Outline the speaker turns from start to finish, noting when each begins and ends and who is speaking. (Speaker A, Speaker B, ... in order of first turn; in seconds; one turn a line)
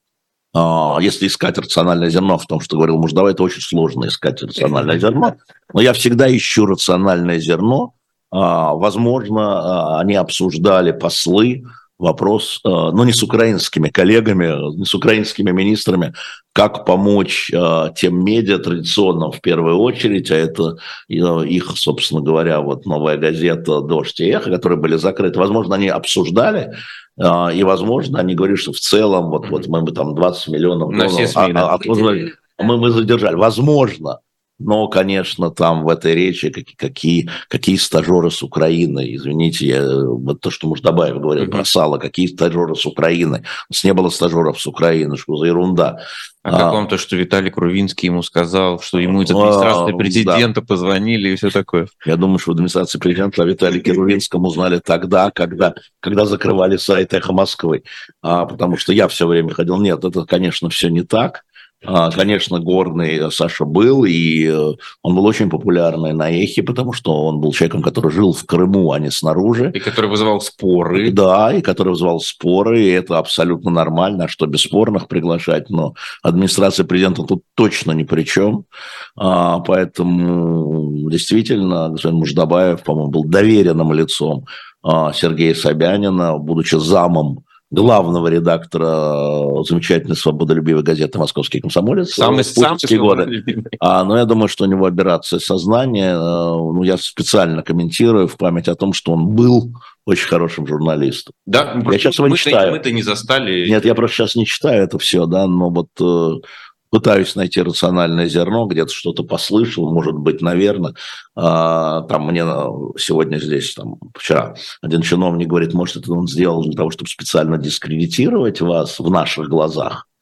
Speaker A: 0.5-46.8
Speaker B: 30.9-32.5
Speaker B: 41.4-41.7
Speaker B: 46.5-51.9
Speaker A: 49.1-50.5
Speaker A: 52.0-69.8
Speaker B: 69.7-71.2
Speaker A: 71.0-78.7
Speaker A: 79.2-102.8
Speaker B: 92.1-93.8
Speaker B: 101.5-103.8
Speaker A: 103.7-120.0